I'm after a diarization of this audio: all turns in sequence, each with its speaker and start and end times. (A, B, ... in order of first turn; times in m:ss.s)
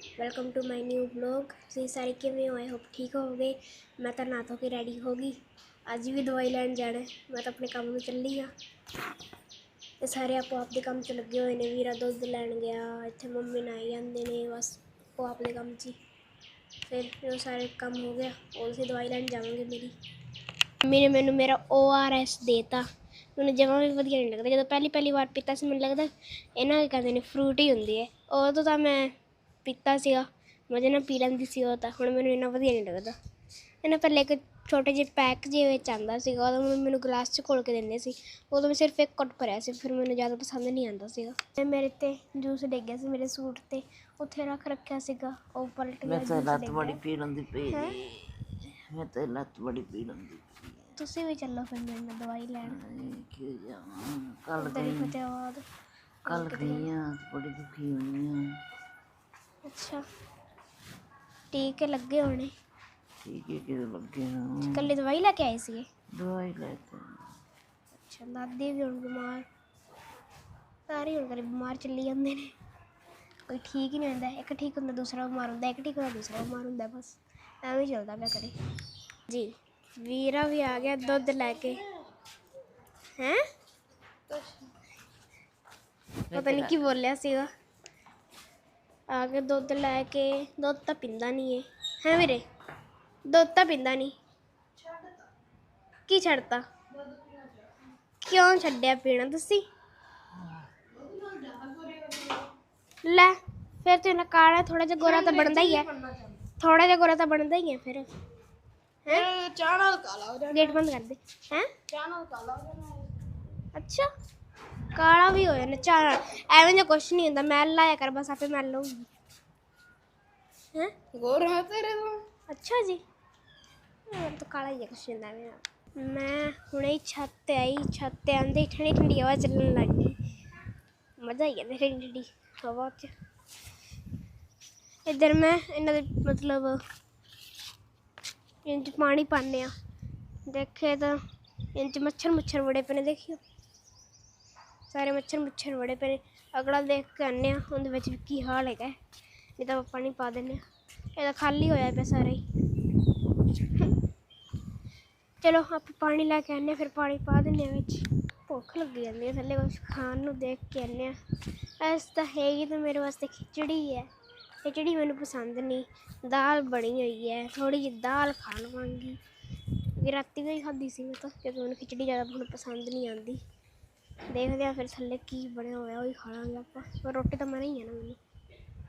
0:00.2-0:05.4 A
0:05.9-0:08.5 A
0:10.0-0:16.0 A
0:16.9-0:19.9 A
0:20.8-0:22.8 A
0:23.4-0:29.1 A
0:29.6-0:33.2 A
0:33.8-0:47.0 A
0:46.0-0:50.9 B
0:47.7-0:48.0 A
0:51.0-0:52.8 A
0:52.7-0:55.1 B
0:54.6-0:55.6 A
0:56.3-0:56.9 A
0:56.3-0:58.5 B
0:59.7-1:00.0 A
1:01.5-1:02.5 A
1:03.2-1:04.9 B
1:04.7-1:05.9 A
1:06.1-1:07.2 B
1:08.0-1:09.5 A
1:10.9-1:12.5 A
1:13.5-1:18.5 A
1:19.3-1:21.8 A
1:21.2-1:21.8 C
1:24.3-1:24.7 C
1:26.3-1:26.7 B
1:26.3-1:27.5 A
1:29.1-1:32.4 A
1:33.3-1:34.2 A
1:34.8-1:35.3 C
1:36.1-1:36.6 A
1:36.9-1:37.7 C
1:38.2-1:39.7 A
1:40.9-1:42.5 C
1:43.0-1:45.9 A
1:45.0-1:46.4 C
1:46.6-1:48.1 A
1:49.1-1:50.8 C
1:50.5-1:51.7 A
1:51.9-1:53.1 C
1:53.8-1:54.1 A
1:54.9-1:59.1 A
2:01.1-2:02.2 C
2:02.5-2:03.0 A
2:04.1-2:10.2 A
2:11.2-2:13.1 A
2:15.1-2:16.8 A
2:18.7-2:19.7 A
2:20.5-2:21.2 A
2:21.8-2:23.4 A
2:24.9-2:29.0 A
2:29.6-2:30.6 A
2:31.2-2:32.4 A
2:35.4-2:41.2 A
2:41.8-2:44.1 A
2:44.6-2:49.2 A
2:49.9-2:53.4 A
2:54.3-2:58.2 A